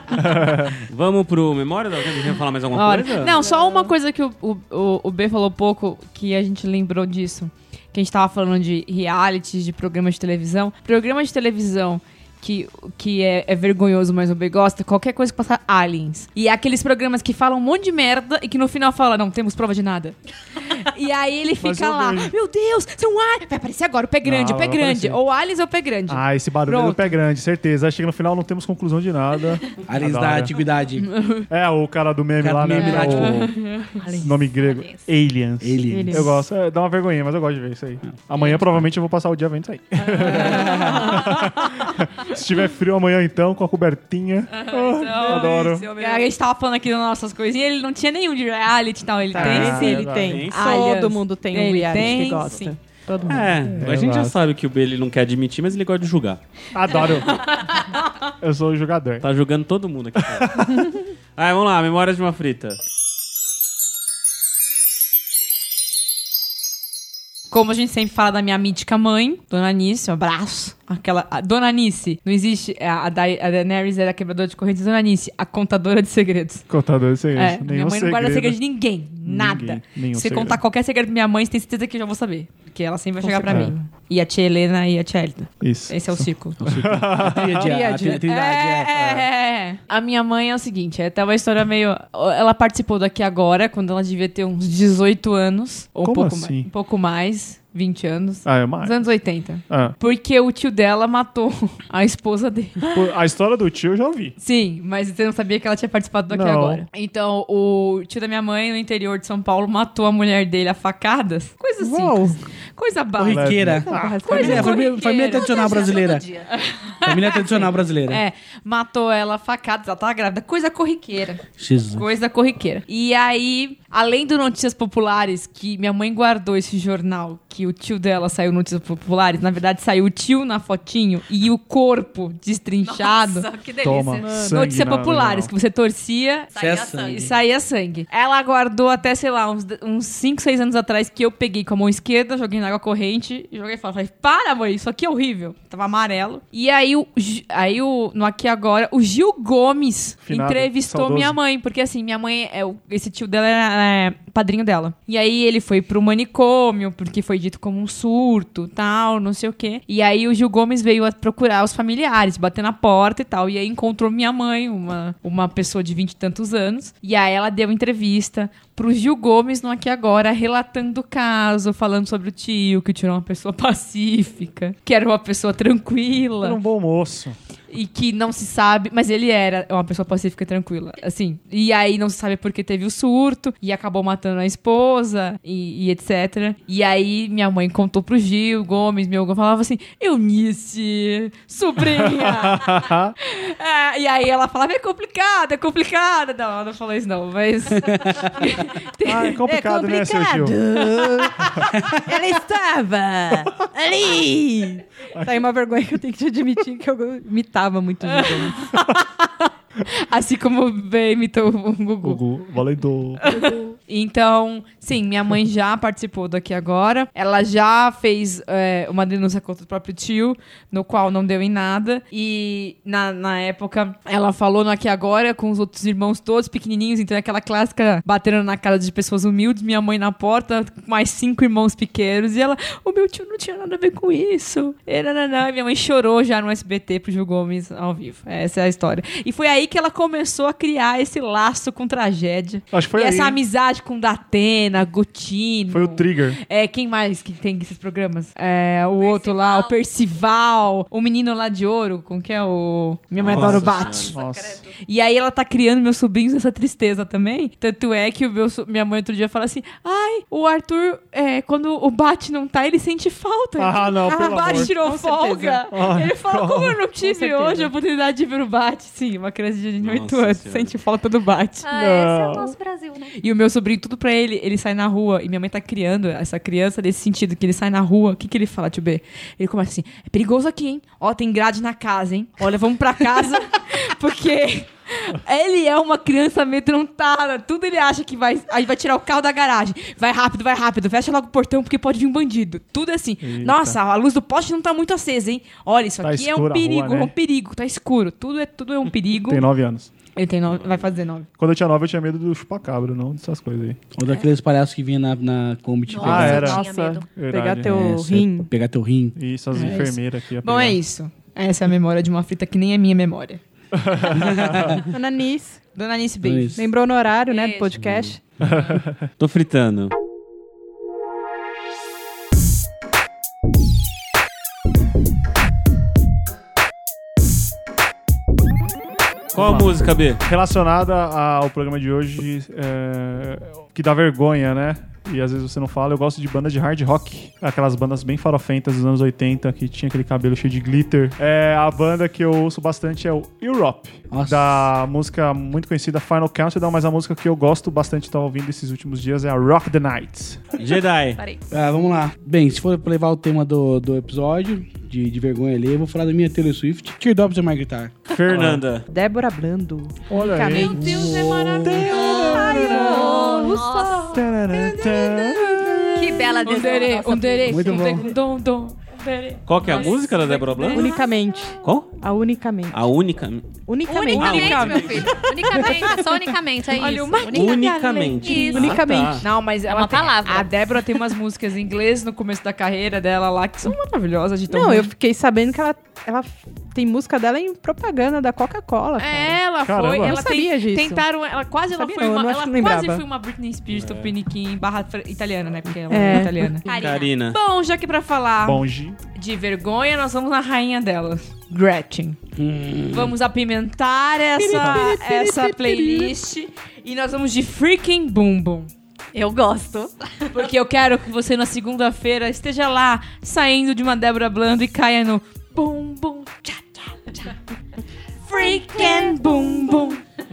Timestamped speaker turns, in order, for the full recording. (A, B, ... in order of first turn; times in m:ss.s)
0:00.1-0:00.8 A
0:00.8-0:03.4 B
0:02.7-0:27.2 C
0:03.4-0:03.9 D
0:21.6-0:22.3 A
0:24.2-0:25.2 A
0:26.1-0:30.5 A
0:29.8-0:31.1 E
0:31.0-0:31.5 C
0:31.5-0:33.5 A
0:32.4-0:33.5 E
0:32.8-0:33.9 C
0:33.8-0:35.0 D
0:34.2-0:45.9 A
0:35.6-0:36.3 E
0:35.9-0:36.3 F
0:40.2-0:41.2 C
0:40.3-0:41.1 F
0:44.5-0:52.7 C
0:45.2-0:46.3 F
0:49.3-0:53.8 F
0:49.4-0:50.5 A
0:50.2-0:50.9 B
0:53.2-0:56.4 B
0:53.8-0:54.4 A
0:56.7-0:57.5 A
0:57.6-0:58.0 C
0:58.4-0:59.3 A
0:59.2-1:00.8 B
1:00.2-1:00.9 A
1:01.4-1:02.8 B
1:07.5-1:16.7 C
1:16.7-1:18.6 A
1:17.3-1:26.6 C
1:19.2-1:20.6 A
1:23.2-1:23.8 F
1:23.5-1:23.7 A
1:25.6-1:27.7 A
1:26.6-1:29.3 E
1:27.6-1:28.2 F
1:28.2-1:43.1 C
1:36.0-1:36.7 A
1:38.4-1:39.1 A
1:39.6-1:40.0 A
1:42.9-1:44.4 A
1:44.4-1:55.5 C
1:46.3-1:46.8 A
1:51.8-1:52.4 F
1:53.2-1:56.3 E
1:53.3-1:54.4 A
1:53.9-1:54.8 F
1:54.4-1:56.5 D
1:56.5-2:13.5 C
1:57.0-1:58.2 E
2:01.6-2:02.0 E
2:12.8-2:14.3 D
2:13.8-2:15.5 A
2:14.2-2:14.6 F
2:14.3-2:16.5 C
2:16.5-2:17.4 D
2:16.6-2:17.3 E
2:17.1-2:56.6 C
2:30.2-2:31.4 A
2:56.4-2:57.4 A
2:57.7-3:19.4 C
3:11.9-3:13.1 A
3:19.0-3:20.7 A
3:19.4-3:28.8 F
3:25.1-3:25.4 A
3:28.0-3:29.1 C
3:29.8-3:32.2 C
3:32.0-3:33.3 A
3:33.2-4:14.2 C
3:33.3-3:33.6 F
4:02.7-4:03.4 A
4:05.7-4:06.4 A
4:09.0-4:09.8 D
4:13.2-4:14.1 B
4:13.3-4:14.6 A
4:13.6-4:14.7 D
4:14.7-4:32.5 C
4:23.6-4:24.7 A
4:24.0-4:25.6 F
4:25.7-4:26.8 A
4:27.0-4:27.7 F
4:29.8-4:30.7 B
4:31.6-4:33.2 D
4:31.7-4:32.5 A
4:33.2-4:59.5 C
4:53.2-4:53.8 A
4:56.0-4:57.1 A
4:59.3-4:59.9 A
5:00.1-5:01.3 C
5:00.5-5:00.8 B
5:01.4-5:03.8 A
5:04.0-5:06.6 E
5:05.9-5:07.1 D
5:06.0-5:08.2 A
5:06.0-5:08.5 F
5:07.6-5:09.2 E
5:09.2-5:10.8 A
5:09.5-5:13.4 C
5:13.7-5:14.8 A
5:14.2-5:14.8 E
5:14.9-5:15.6 F
5:15.7-5:16.6 C
5:16.2-5:16.6 E
5:16.6-5:18.2 F
5:17.3-5:17.7 C
5:17.7-5:18.1 B
5:18.4-5:19.0 A
5:19.2-5:19.9 B
5:29.3-5:30.2 B
5:29.3-5:50.5 A
5:44.1-5:44.5 E
5:50.6-5:51.2 B
5:51.2-5:51.4 D
5:51.5-5:58.0 E
5:58.1-5:58.8 B
5:58.2-5:58.6 A
5:58.9-6:01.1 F
6:00.1-6:01.0 A
6:00.6-6:05.8 C
6:00.8-6:02.1 E
6:00.8-6:04.2 D
6:01.6-6:03.5 A
6:01.9-6:04.2 F
6:04.1-6:05.7 A
6:05.9-6:07.3 D
6:06.4-6:11.0 C
6:06.4-6:07.7 F
6:07.5-6:08.1 E
6:09.5-6:10.9 B
6:10.7-6:12.8 F
6:11.6-6:12.0 B
6:12.7-6:13.5 B
6:13.7-6:16.3 F
6:13.8-6:18.9 D
6:14.1-6:15.6 C
6:14.1-6:15.2 B
6:16.7-6:24.9 C
6:17.3-6:19.2 B
6:18.5-6:19.3 F
6:19.7-6:20.7 D
6:24.5-6:29.4 F
6:29.0-6:38.6 C
6:29.6-6:30.2 A
6:30.0-6:31.0 F
6:31.7-6:33.0 F
6:33.7-6:34.1 B
6:35.9-6:36.5 F
6:36.6-6:37.1 D
6:36.7-6:37.4 B
6:38.4-6:39.0 A
6:39.1-6:42.2 C
6:42.4-6:43.2 E
6:42.9-6:48.7 C
6:44.4-6:44.7 E
6:44.5-6:46.1 F
6:49.1-6:50.5 D
6:50.3-6:57.3 C
6:58.2-7:00.0 C
6:58.4-6:59.4 D